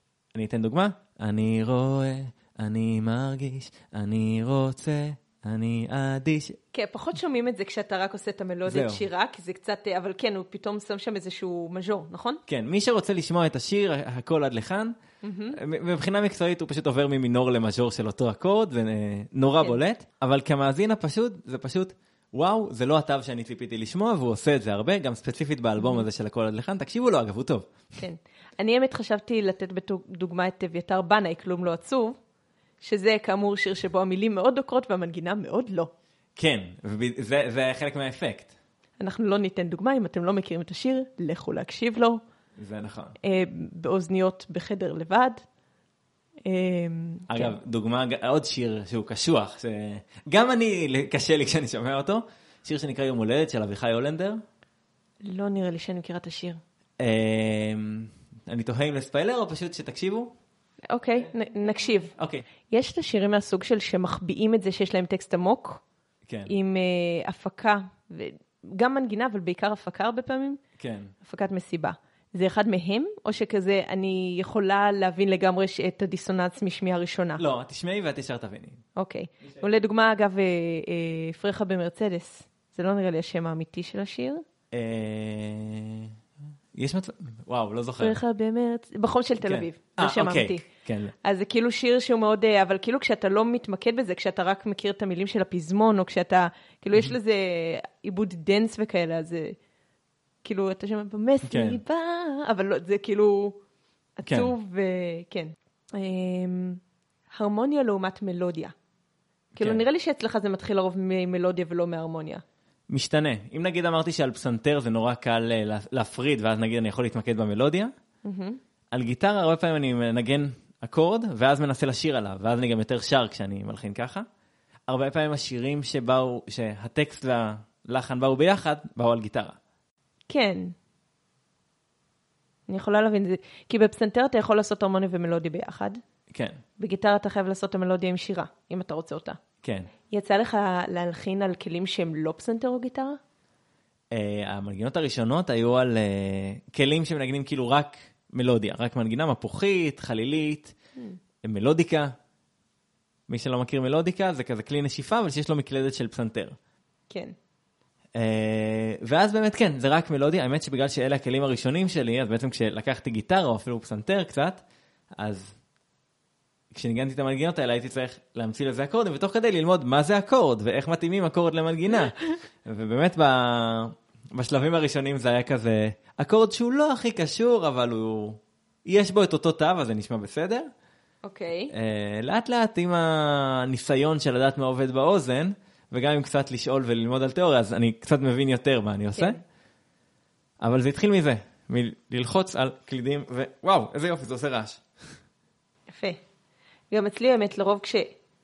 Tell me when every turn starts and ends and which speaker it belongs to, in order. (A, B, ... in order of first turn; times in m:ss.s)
0:00.3-0:06.6 A
0:06.7-0:12.4 B
0:08.6-0:09.0 A
0:12.5-0:14.9 A
0:15.2-0:15.6 B
0:15.5-0:27.7 A
0:25.8-0:26.0 B
0:28.0-0:32.2 B
0:32.8-0:35.9 B
0:36.4-0:38.5 A
0:39.0-0:42.2 B
0:42.6-0:43.2 A
0:43.2-0:45.4 B
0:46.4-0:47.6 B
0:47.3-0:54.4 A
0:55.2-0:56.6 B
0:57.0-1:00.3 A
1:00.9-1:02.2 B
1:02.2-1:02.4 A
1:02.7-1:05.8 B
1:06.3-1:06.5 A
1:06.5-1:10.6 B
1:10.8-1:11.1 A
1:11.2-1:17.4 B
1:17.4-1:18.8 A
1:19.0-1:24.4 B
1:24.7-1:26.1 A
1:26.8-1:28.2 A
1:28.0-1:30.6 B
1:29.4-1:31.1 A
1:31.2-1:39.6 B
1:40.4-1:43.6 B
1:41.4-1:41.8 A
1:44.2-1:48.7 B
1:44.3-1:44.5 A
1:49.6-1:49.8 A
1:49.6-1:52.4 B
1:52.9-1:57.9 A
1:58.2-1:58.6 B
1:58.9-2:04.2 A
2:04.9-2:09.6 A
2:10.3-2:10.7 B
2:12.7-2:16.0 B
2:16.3-2:16.6 A
2:16.8-2:19.4 B
2:19.6-2:19.9 A
2:20.1-2:23.2 B
2:24.1-2:30.7 A
2:31.4-2:32.1 A
2:33.3-2:36.6 A
2:37.1-2:37.3 B
2:38.2-2:44.6 A
2:45.2-2:45.5 A
2:46.7-3:00.7 A
3:01.2-3:01.7 B
3:01.7-3:09.4 A
3:10.6-3:14.8 A
3:15.9-3:16.2 B
3:16.9-3:18.2 B